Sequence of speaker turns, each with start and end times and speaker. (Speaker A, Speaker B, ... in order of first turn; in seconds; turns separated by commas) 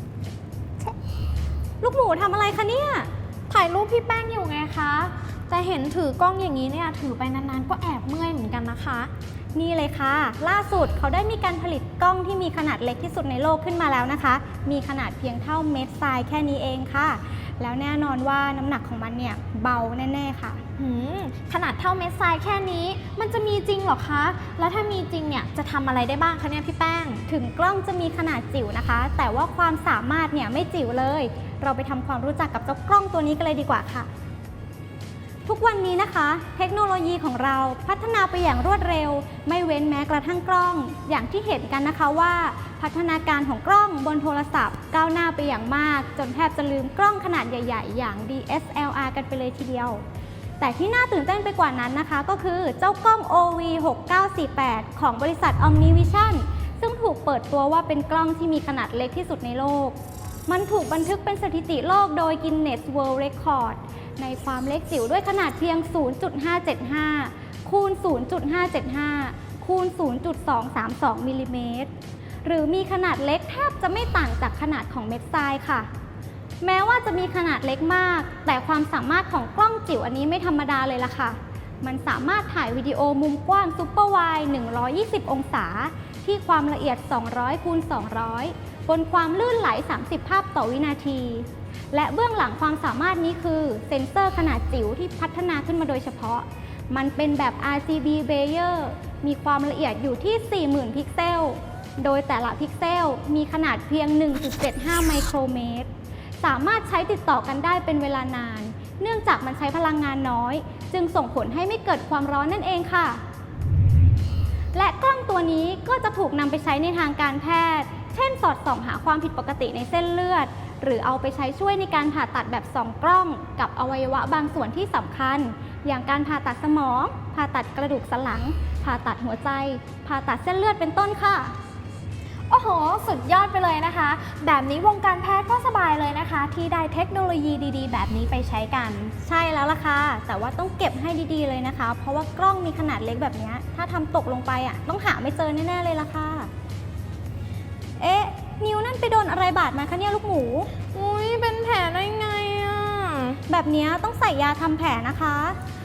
Speaker A: 1.8-3.1, Speaker B: 3.5-9.1, Speaker A: 9.5-20.6, Speaker B: 20.8-27.2, Speaker A: 27.3-34.1, Speaker A: 35.5-50.0, Speaker A: 50.6-71.9, Speaker A: 72.4-75.9, Speaker A: 76.6-105.9, Speaker A: 106.4-113.2, Speaker A: 114.7-131.5, Speaker B: 132.5-139.1, Speaker A: 139.2-146.5, Speaker A: 148.0-150.7, Speaker B: 150.9-153.4, Speaker A: 153.5-155.6